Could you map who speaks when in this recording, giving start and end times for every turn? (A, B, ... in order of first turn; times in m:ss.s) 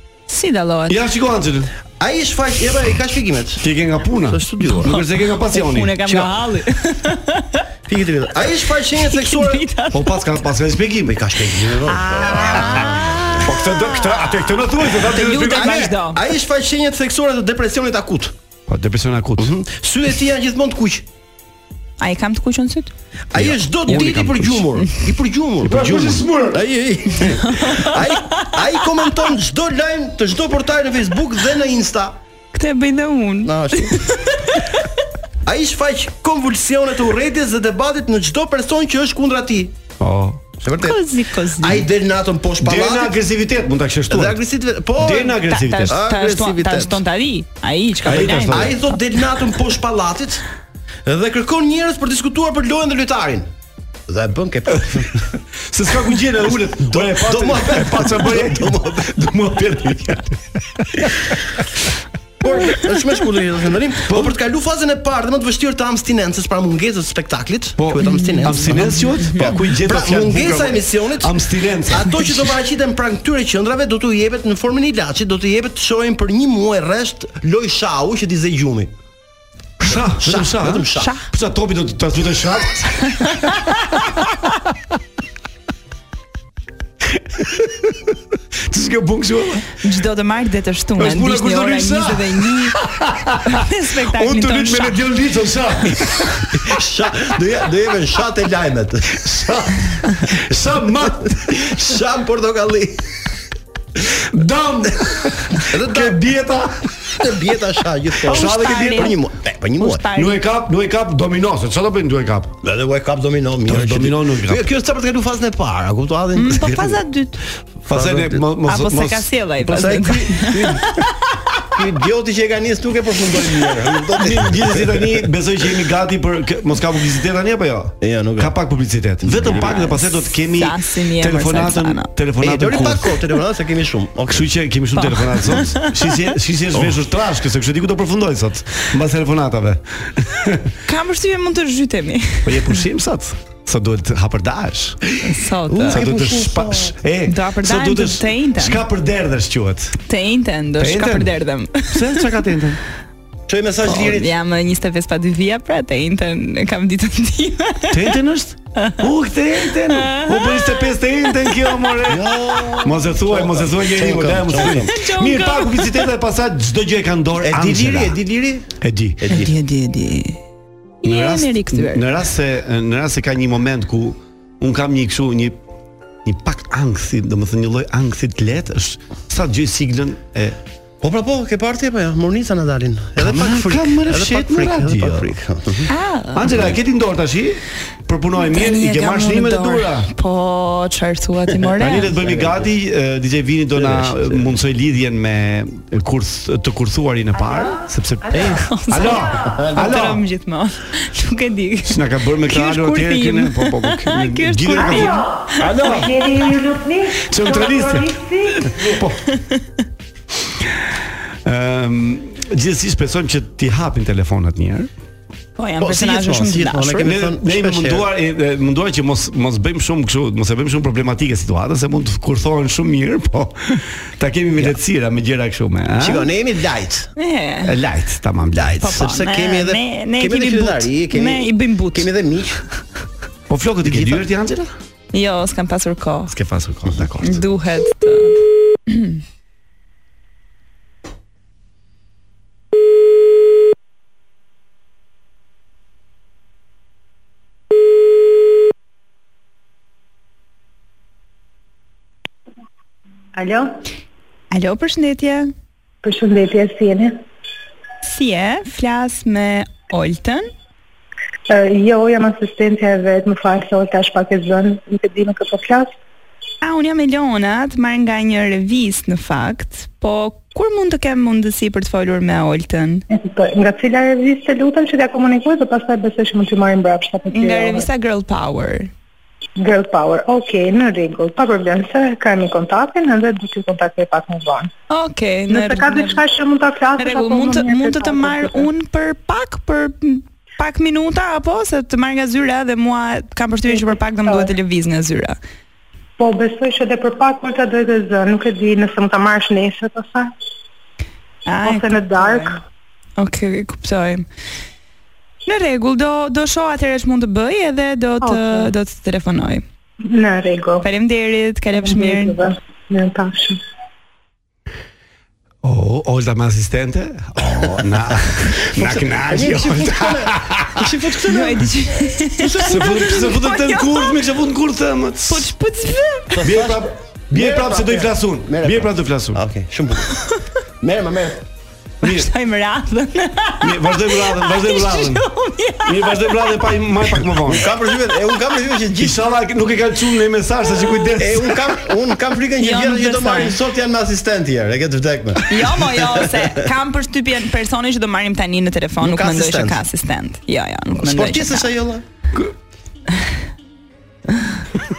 0:00.3-0:01.0 A
0:00.9-0:01.7 B
0:02.0-0:03.7 C
0:03.6-0:06.3 B
0:04.3-0:04.9 C
0:04.8-0:07.6 A
0:07.9-0:09.6 C
0:08.9-0:10.2 A
0:09.9-0:11.8 B
0:11.1-0:13.4 C
0:11.9-0:16.2 A
0:12.4-0:12.9 B
0:13.4-0:15.9 B
0:15.3-0:18.3 C
0:18.7-0:19.6 B
0:19.4-0:21.0 C
0:22.0-0:22.9 A
0:23.3-0:32.2 C
0:23.3-0:24.8 B
0:25.6-0:26.6 B
0:27.4-0:28.5 A
0:32.5-0:34.9 A
0:33.4-0:34.0 C
0:35.4-0:39.8 C
0:40.0-0:40.4 B
0:40.6-0:41.1 C
0:40.8-0:41.8 A
0:41.6-0:43.2 C
0:42.6-0:44.4 B
0:44.1-0:47.0 C
0:45.0-0:46.0 B
0:45.4-0:48.9 A
0:48.0-0:48.8 B
0:48.1-0:50.4 C
0:51.1-0:53.5 C
0:54.1-0:55.3 C
0:55.7-1:01.4 B
0:56.8-0:59.1 C
1:02.4-1:18.9 C
1:04.1-1:04.4 B
1:07.8-1:12.2 B
1:08.0-1:09.6 A
1:19.8-1:22.9 B
1:19.9-1:21.1 C
1:20.9-1:21.3 A
1:23.1-1:23.5 A
1:27.1-1:29.7 B
1:29.8-1:32.8 A
1:31.0-1:36.8 B
1:33.4-1:35.0 A
1:36.6-1:39.3 C
1:39.2-1:41.9 B
1:41.4-1:43.0 C
1:44.1-1:47.3 B
1:45.6-1:46.2 C
1:47.1-1:50.0 C
1:48.2-1:49.2 B
1:48.3-1:49.2 A
1:49.8-1:50.4 A
1:50.1-1:52.6 B
1:52.6-1:57.0 C
1:53.6-1:54.7 B
1:56.4-1:57.4 A
1:57.8-1:58.5 C
1:57.9-1:59.3 B
1:58.6-2:00.8 A
1:59.6-2:01.0 C
2:01.7-2:05.3 C
2:04.2-2:13.1 B
2:08.0-2:09.8 C
2:09.5-2:12.1 A
2:12.4-2:14.5 C
2:14.3-2:20.7 B
2:15.0-2:15.9 A
2:20.9-2:22.8 A
2:22.4-2:25.0 B
2:25.2-2:26.0 A
2:25.7-2:27.0 C
2:25.9-2:30.0 B
2:27.3-2:28.8 A
2:30.1-2:32.2 A
2:30.8-2:32.8 B
2:33.5-2:34.3 C
2:33.8-2:38.2 A
2:37.9-2:48.2 B
2:38.8-2:39.0 A
2:39.9-2:42.0 A
2:42.1-2:44.9 C
2:44.9-2:46.1 A
2:47.4-2:49.5 C
2:48.8-2:49.2 B
2:49.3-2:50.4 A
2:51.0-2:52.0 A
2:51.0-2:55.6 B
2:56.2-3:00.6 B
3:01.0-3:05.9 C
3:03.2-3:05.3 B
3:05.9-3:06.8 A
3:06.3-3:10.1 B
3:08.4-3:12.2 A
3:11.8-3:20.2 B
3:12.2-3:12.7 C
3:13.8-3:14.5 C
3:18.6-3:25.7 A
3:19.4-3:19.9 C
3:21.9-3:26.2 B
3:25.6-3:26.9 C
3:27.2-3:29.2 B
3:31.4-3:34.9 B
3:35.6-3:37.1 A
3:35.8-3:38.1 C
3:37.0-3:46.3 B
3:46.0-3:47.1 C
3:47.2-3:47.7 A
3:47.6-3:49.1 B
3:48.5-3:52.6 C
3:48.8-3:52.1 A
3:53.5-3:54.7 B
3:53.8-3:54.2 C
3:55.1-3:56.4 A
3:56.3-3:57.4 B
3:57.2-3:59.2 A
4:13.4-4:13.8 D
4:14.5-4:15.5 A
4:16.0-4:17.2 D
4:18.0-4:20.5 A
4:21.5-4:25.9 D
4:26.6-4:33.0 A
4:33.1-4:37.9 D
4:37.3-4:38.9 A
4:39.6-4:44.7 D
4:44.9-4:46.2 A
4:45.5-4:48.7 D
4:47.0-4:55.4 A
4:53.7-4:54.5 D
4:56.2-5:00.3 D
5:01.5-5:02.6 A
5:01.6-5:02.6 D
5:03.2-5:04.2 A
5:05.5-5:09.6 A
5:08.2-5:08.7 D
5:10.1-5:10.8 D
5:10.8-5:12.4 A
5:11.8-5:13.6 D
5:15.6-5:20.9 B
5:18.7-5:23.3 C
5:21.3-5:24.2 A
5:22.6-5:25.5 B
5:25.3-5:26.3 A
5:26.3-5:30.2 C
5:26.4-5:29.4 B
5:30.1-5:30.5 A
5:30.8-5:31.4 C
5:32.0-5:32.3 B
5:32.0-5:36.9 A
5:33.6-5:35.3 B
5:35.8-5:37.7 B
5:37.5-5:39.2 C
5:39.0-5:41.8 B
5:41.2-5:46.7 C
5:42.6-5:43.6 A
5:45.5-5:51.7 A
5:49.0-5:49.8 C
5:51.0-5:52.0 C